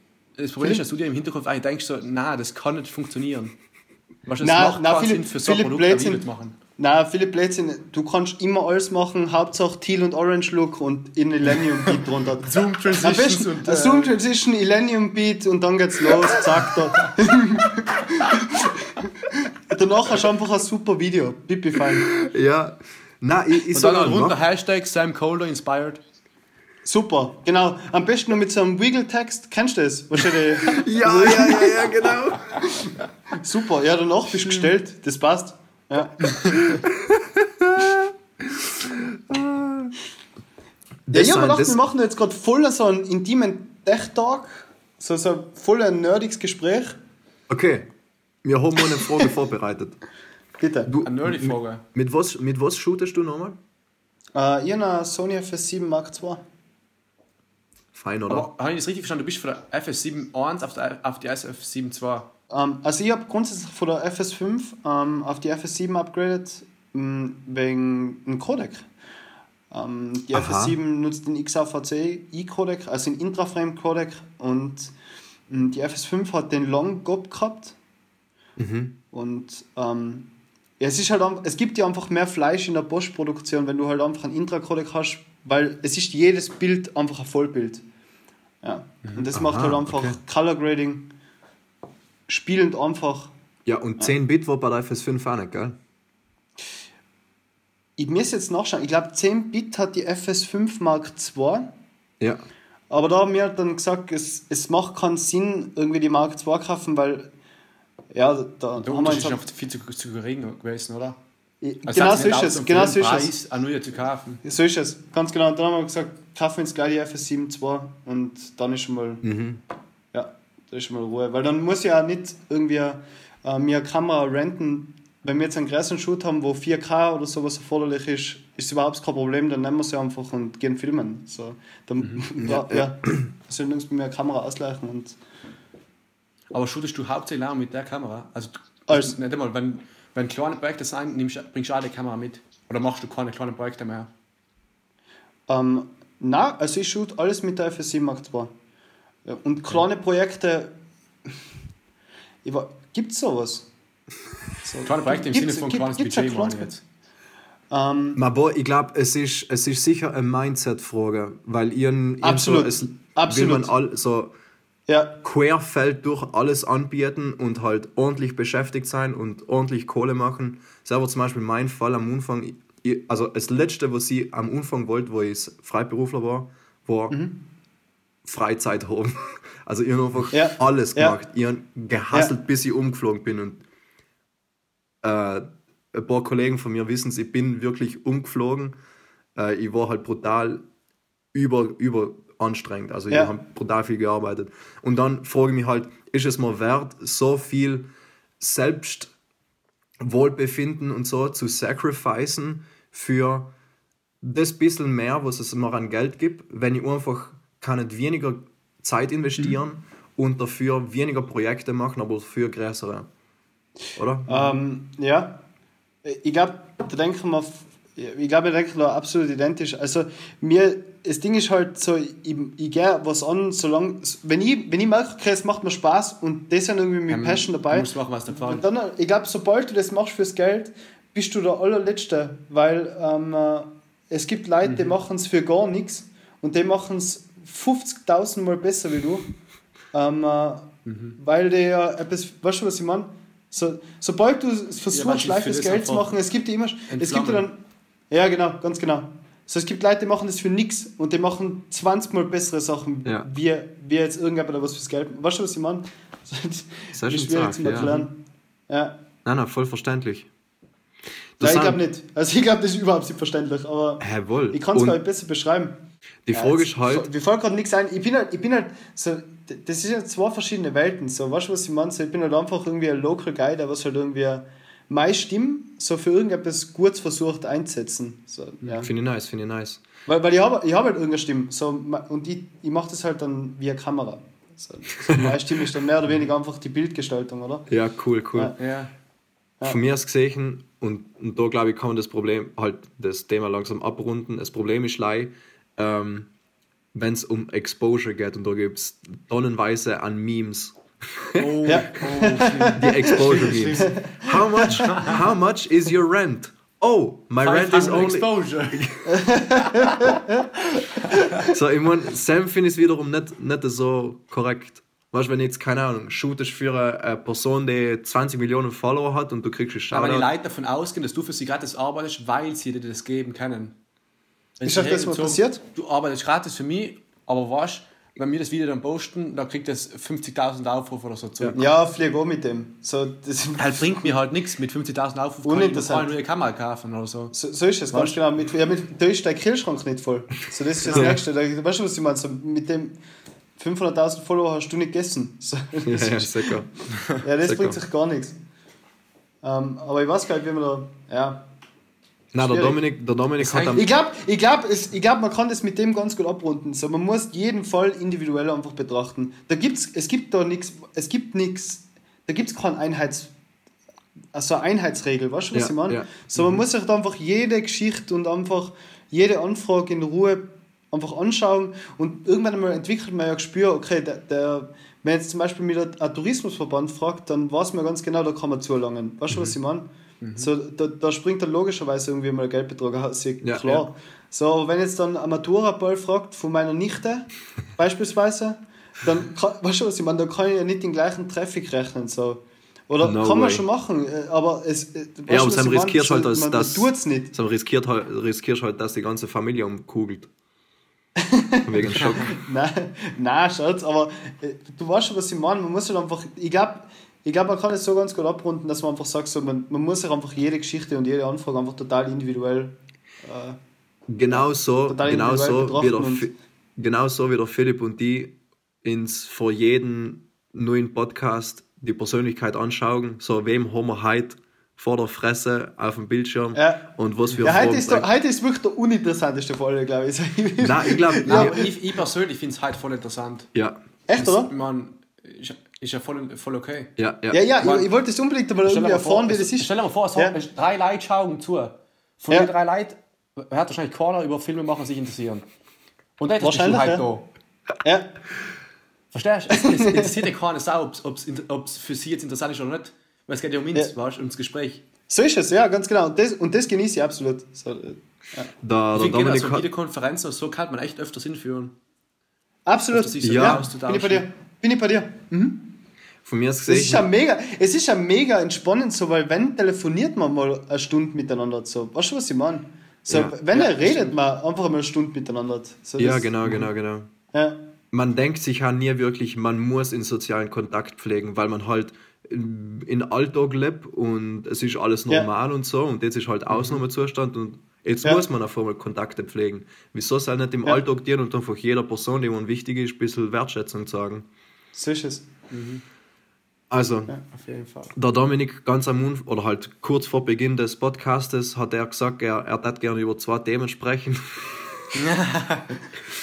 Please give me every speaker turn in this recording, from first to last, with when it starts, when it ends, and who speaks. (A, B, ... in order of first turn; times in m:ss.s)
0:00.4-0:03.6 A
0:04.2-0:06.6 A
0:04.4-0:06.2 B
0:06.8-0:22.1 B
0:12.4-0:14.2 A
0:22.0-0:24.4 C
0:23.7-0:26.0 A
0:26.8-0:32.0 B
0:30.6-0:32.7 C
0:32.6-0:36.6 B
0:36.8-0:39.9 C
0:41.1-0:41.8 C
0:41.1-0:47.0 B
0:47.5-0:47.9 C
0:48.4-0:50.0 C
0:50.6-0:50.9 B
0:50.8-0:53.6 C
0:51.0-0:51.8 A
0:54.3-0:56.4 B
0:57.9-0:58.5 C
0:58.3-1:02.3 A
1:02.5-1:08.9 B
1:09.7-1:14.9 B
1:10.3-1:10.8 C
1:15.5-1:17.7 B
1:18.6-1:19.0 C
1:19.1-1:20.3 B
1:20.8-1:27.8 B
1:28.6-1:31.1 B
1:29.3-1:30.2 C
1:32.3-1:33.3 B
1:33.6-1:35.8 C
1:38.0-1:41.7 B
1:42.9-1:47.3 B
1:48.1-1:49.4 B
1:48.8-1:51.2 A
1:51.6-1:53.3 B
1:51.9-1:54.4 A
1:54.4-1:59.2 B
1:59.2-1:59.6 C
2:00.1-2:15.2 B
2:12.4-2:13.1 C
2:16.5-2:24.1 A
2:18.9-2:19.2 B
2:25.5-2:28.5 B
2:29.2-2:30.7 B
2:32.4-2:33.7 B
2:34.6-2:36.7 B
2:34.8-2:36.8 A
2:37.7-2:38.2 B
2:38.2-2:44.3 C
2:42.2-2:43.7 B
2:44.9-2:45.2 B
2:45.2-2:57.1 C
2:57.1-2:57.4 B
2:58.2-3:03.6 C
3:00.3-3:01.2 B
3:05.0-3:08.8 C
3:09.3-3:10.6 C
3:11.3-3:17.9 C
3:18.4-3:19.1 C
3:20.0-3:23.5 C
3:24.2-3:33.1 C
3:34.0-3:34.5 C
3:34.3-3:35.4 B
3:36.0-3:59.3 B
3:47.1-3:48.6 A
3:54.6-3:54.9 A
3:59.9-4:07.6 B
4:00.8-4:01.2 A
4:04.9-4:06.2 A
4:06.9-4:07.5 A
4:08.1-4:19.0 B
4:16.9-4:18.1 C
4:19.2-4:20.3 C
4:21.4-4:21.8 C
4:21.4-4:25.8 B
4:24.0-4:25.0 C
4:26.2-4:27.1 C
4:26.3-4:38.9 B
4:38.8-4:39.8 C
4:40.0-4:47.7 B
4:47.7-4:48.5 C
4:48.6-4:48.9 A
4:49.6-4:56.3 C
4:56.9-5:01.7 C
5:01.4-5:03.9 A
5:01.6-5:05.0 B
5:02.7-5:09.0 C
5:04.7-5:05.2 A
5:07.4-5:08.8 A
5:09.0-5:10.5 B
5:11.1-5:11.5 B
5:11.4-5:20.3 C
5:19.9-5:23.8 A
5:24.6-5:31.7 A
5:24.6-5:25.6 B
5:31.6-5:34.1 B
5:33.6-5:37.3 A
5:35.4-5:36.1 B
5:37.3-5:43.0 B
5:40.9-5:41.2 A
5:40.9-5:41.2 C
5:43.6-5:46.6 B
5:45.8-5:46.7 C
5:47.2-5:48.4 B
5:47.4-5:47.8 C
5:49.4-5:51.4 B
5:52.3-5:53.9 C
5:52.4-5:52.8 B
5:53.4-5:53.9 A
5:53.7-6:03.3 B
6:04.3-6:37.3 B
6:05.5-6:06.1 C
6:06.4-6:06.6 A
6:20.2-6:20.5 A
6:23.4-6:23.9 C
6:33.0-6:33.6 C
6:35.3-6:40.3 C
6:41.2-6:53.6 B
6:41.6-6:42.3 C
6:54.1-7:08.0 C
6:54.3-6:56.3 B
7:06.5-7:06.9 B
7:07.4-7:11.7 B
7:10.6-7:11.6 C
7:11.2-7:13.5 A
7:13.5-7:13.8 C
7:14.1-7:14.5 B
7:14.2-7:16.9 A
7:17.0-7:17.4 C
7:17.3-7:20.3 B
7:17.6-7:17.9 A
7:18.6-7:25.4 A
7:26.2-7:27.3 A
7:26.4-7:27.0 B
7:27.8-7:28.1 B
7:29.1-7:34.8 A
7:29.5-7:30.2 B
7:35.1-7:38.5 B
7:38.6-7:39.6 C
7:38.9-7:41.8 A
7:42.6-7:45.7 B
7:42.9-7:44.2 A
7:43.2-7:43.6 C
7:46.2-7:47.1 C
7:46.7-7:56.4 B
7:53.1-7:53.3 C
7:53.5-7:54.2 A
7:56.0-7:57.1 C
7:57.3-7:57.6 B
7:57.9-8:14.2 C
8:14.7-8:15.2 B
8:15.5-8:15.8 A
8:16.7-8:17.1 C
8:17.3-8:17.9 A
8:17.9-8:24.9 C
8:24.9-8:25.7 A